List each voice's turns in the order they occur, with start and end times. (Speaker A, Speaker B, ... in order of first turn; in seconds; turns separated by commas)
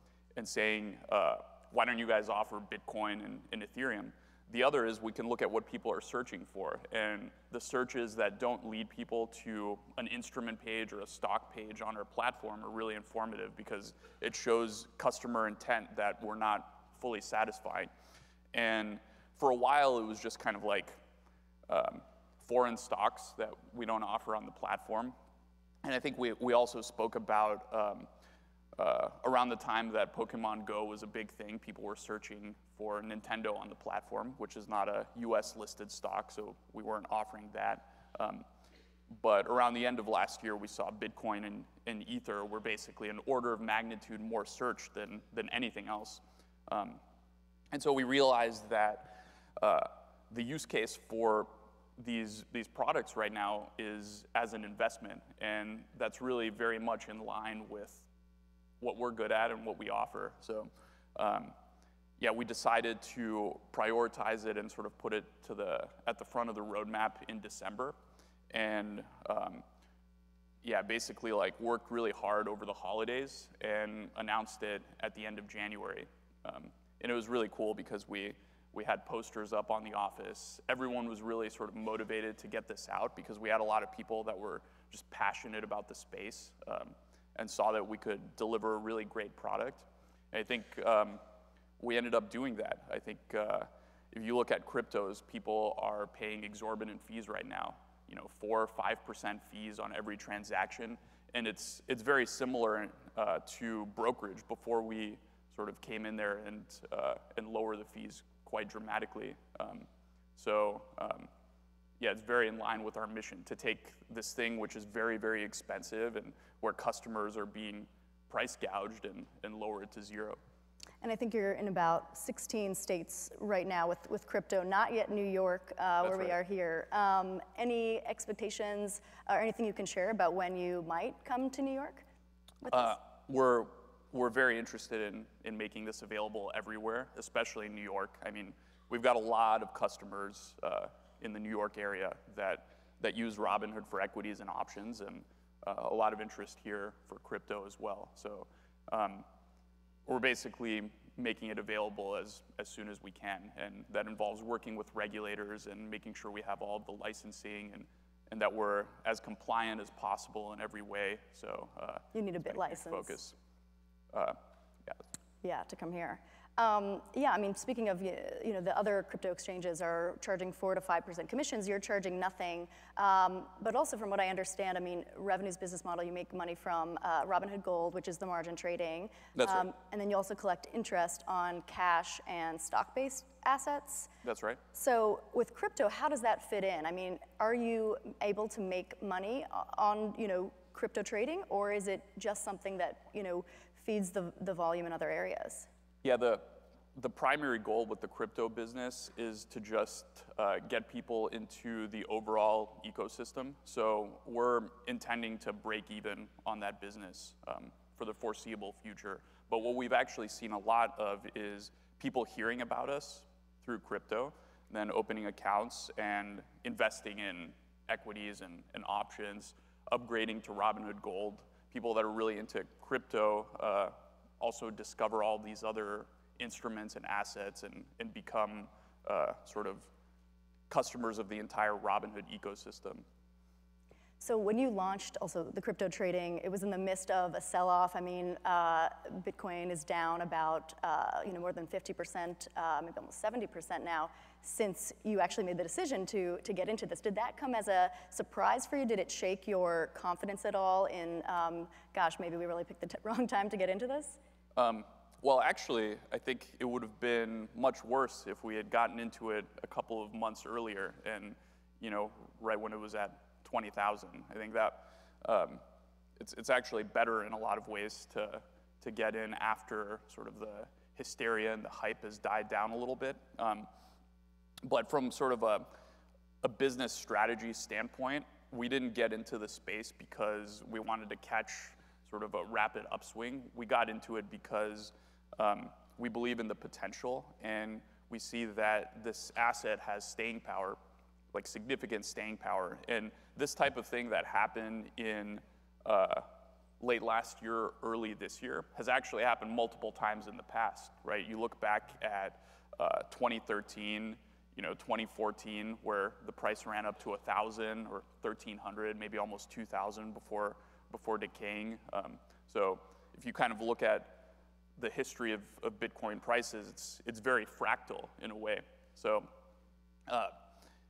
Speaker A: 0.3-17.9, Speaker A: 18.5-21.0, Speaker A: 21.7-25.1, Speaker A: 25.8-28.1, Speaker A: 28.8-38.4, Speaker A: 39.1-47.0, Speaker A: 47.7-58.1, Speaker A: 58.8-61.5, Speaker A: 62.2-68.0, Speaker A: 68.5-69.6, Speaker A: 70.6-91.2, Speaker A: 91.8-111.3, Speaker A: 112.0-120.4, Speaker B: 121.0-132.0, Speaker A: 126.0-126.4, Speaker B: 132.6-132.9, Speaker A: 132.7-149.2, Speaker A: 150.1-163.3, Speaker B: 162.1-163.2, Speaker A: 164.1-165.0, Speaker B: 165.4-184.1, Speaker A: 179.3-179.7, Speaker A: 184.2-184.6, Speaker B: 184.7-195.7, Speaker A: 196.0-229.9, Speaker A: 230.7-233.0, Speaker B: 234.2-254.2, Speaker A: 254.6-265.6, Speaker A: 266.2-273.7, Speaker A: 274.6-275.7, Speaker A: 276.4-290.8, Speaker A: 291.3-296.3, Speaker A: 296.8-314.2, Speaker A: 314.8-319.3, Speaker A: 320.1-320.4